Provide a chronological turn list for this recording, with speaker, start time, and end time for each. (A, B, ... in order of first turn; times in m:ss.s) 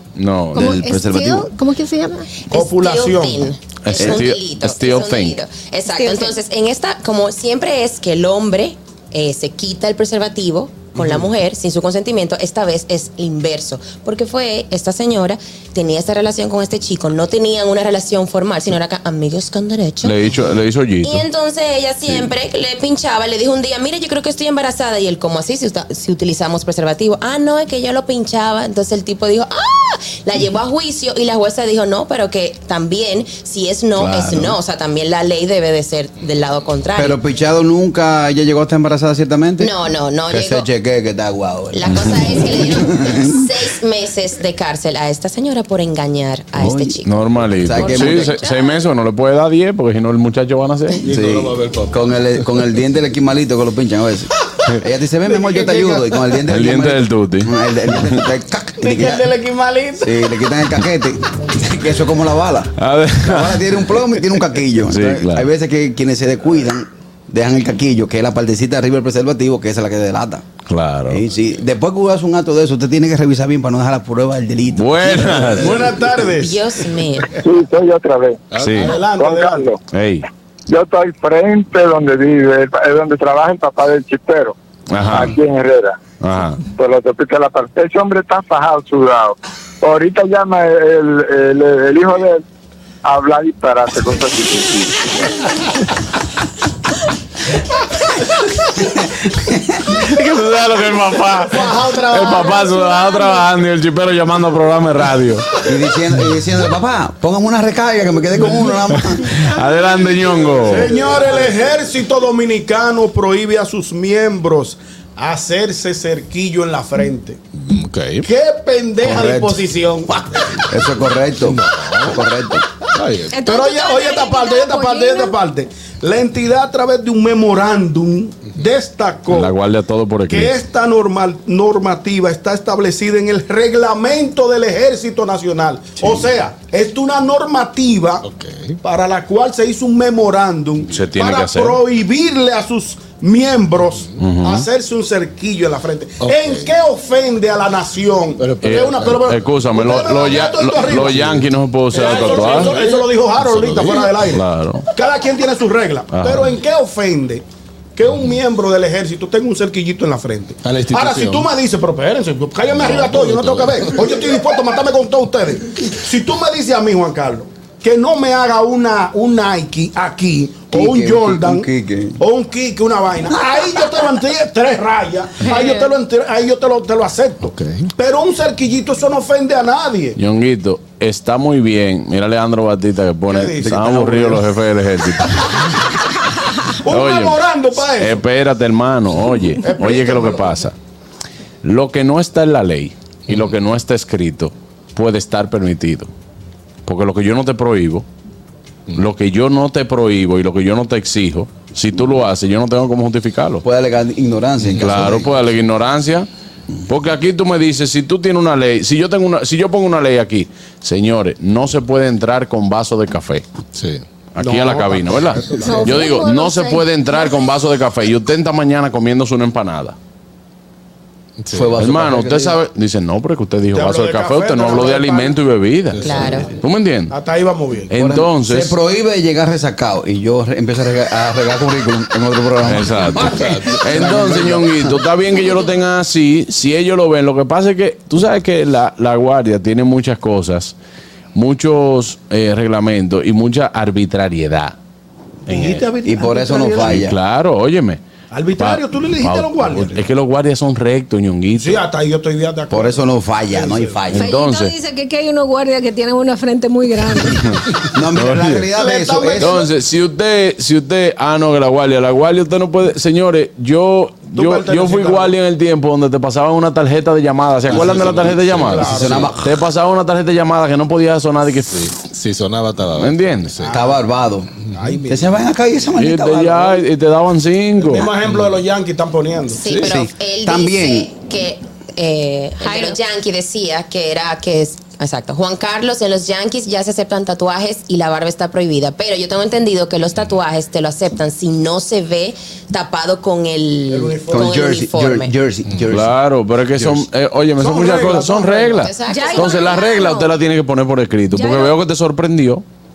0:00.2-0:00.8 A
0:00.5-0:01.5 B
0:00.5-0:02.3 C
0:02.5-0:03.5 D
0:02.5-0:20.2 E
0:03.8-0:05.4 A
0:04.0-0:04.3 B
0:05.9-0:06.3 C
0:11.0-0:11.3 F
0:20.0-0:21.2 A
0:21.0-0:37.2 E
0:34.0-0:34.6 B
0:37.0-0:39.7 B
0:39.6-0:40.7 E
0:40.3-0:43.5 B
0:41.7-0:48.8 E
0:46.6-0:47.0 B
0:47.0-0:51.0 A
0:47.6-0:48.4 B
0:51.0-0:52.0 F
0:51.1-0:59.3 B
0:55.3-0:56.4 D
0:56.5-0:57.5 A
0:58.8-1:00.3 D
1:00.0-1:10.4 B
1:02.8-1:03.9 A
1:04.9-1:05.5 A
1:10.7-1:11.2 A
1:11.1-1:15.9 B
1:14.8-1:15.8 A
1:15.6-1:16.7 D
1:16.2-1:17.4 E
1:17.4-1:18.4 G
1:18.5-1:18.9 F
1:18.6-1:19.0 A
1:18.7-1:19.7 D
1:19.0-1:19.8 G
1:19.9-1:20.2 A
1:20.7-1:24.6 G
1:24.9-1:25.4 A
1:25.1-1:26.0 G
1:26.2-1:26.6 A
1:26.7-1:32.4 G
1:33.0-1:35.1 G
1:38.8-1:39.9 B
1:40.0-1:45.6 A
1:41.3-1:42.9 D
1:45.6-1:49.4 B
1:49.3-1:50.9 A
1:50.6-1:57.4 D
1:57.6-1:58.3 F
1:58.2-2:00.6 D
1:59.1-1:59.5 B
2:00.7-2:02.6 B
2:01.4-2:02.2 F
2:02.9-2:03.4 F
2:03.3-2:05.4 C
2:03.4-2:09.6 D
2:09.3-2:10.5 A
2:10.3-2:18.2 D
2:18.2-2:18.8 F
2:18.8-2:31.4 D
2:20.9-2:21.8 A
2:24.2-2:24.7 A
2:26.2-2:26.7 F
2:28.4-2:29.1 F
2:28.6-2:32.8 A
2:31.0-2:34.2 F
2:31.9-2:37.4 D
2:34.3-2:34.9 A
2:36.1-2:36.6 A
2:38.0-2:51.7 D
2:40.6-2:41.5 F
2:42.7-2:44.2 F
2:50.7-2:52.2 B
2:52.2-3:00.2 D
2:57.4-2:57.9 F
3:00.2-3:05.7 A
3:03.3-3:04.5 D
3:06.8-3:08.2 D
3:06.8-3:10.8 A
3:09.6-3:10.6 D
3:11.6-3:16.1 A
3:16.9-3:18.1 A
3:19.0-3:23.6 A
3:23.6-3:25.3 B
3:24.8-3:26.3 A
3:26.9-3:33.5 A
3:33.8-3:34.0 F
3:34.4-3:40.0 A
3:34.4-3:36.1 D
3:35.6-3:37.4 C
3:41.4-3:41.7 F
3:41.5-3:42.6 B
3:41.8-3:47.2 A
3:43.7-3:45.4 D
3:45.9-3:46.5 F
3:46.0-3:46.5 E
3:47.1-3:47.9 D
3:47.9-3:48.8 A
3:47.9-3:54.9 B
3:52.6-4:00.8 A
3:53.3-3:53.8 F
4:01.4-4:04.8 A
4:05.5-4:05.9 A
4:05.5-4:07.0 D
4:06.0-4:07.2 B
4:06.8-4:08.0 A
4:08.3-4:10.0 D
4:08.6-4:11.8 A
4:11.6-4:14.0 D
4:12.7-4:14.4 B
4:14.1-4:17.6 C
4:14.1-4:14.8 A
4:17.9-4:19.6 B
4:18.2-4:18.6 A
4:18.7-4:19.7 D
4:19.4-4:31.8 A
4:24.3-4:25.4 D
4:27.7-4:29.3 F
4:27.7-4:28.2 B
4:28.6-4:29.3 D
4:28.8-4:29.6 B
4:31.7-4:33.8 F
4:33.0-4:33.6 A
4:33.6-4:34.0 D
4:33.7-4:34.5 B
4:34.7-4:35.4 D
4:35.1-4:36.8 B
4:36.0-4:38.1 A
4:37.8-4:39.7 D
4:39.6-4:55.3 E
4:39.8-4:41.1 B
4:53.9-4:54.7 D
4:54.3-4:56.1 B
4:55.9-5:02.6 A
4:56.8-4:57.0 F
4:57.6-4:58.8 D
4:58.8-5:00.1 E
4:59.1-5:00.3 C
5:01.3-5:01.8 C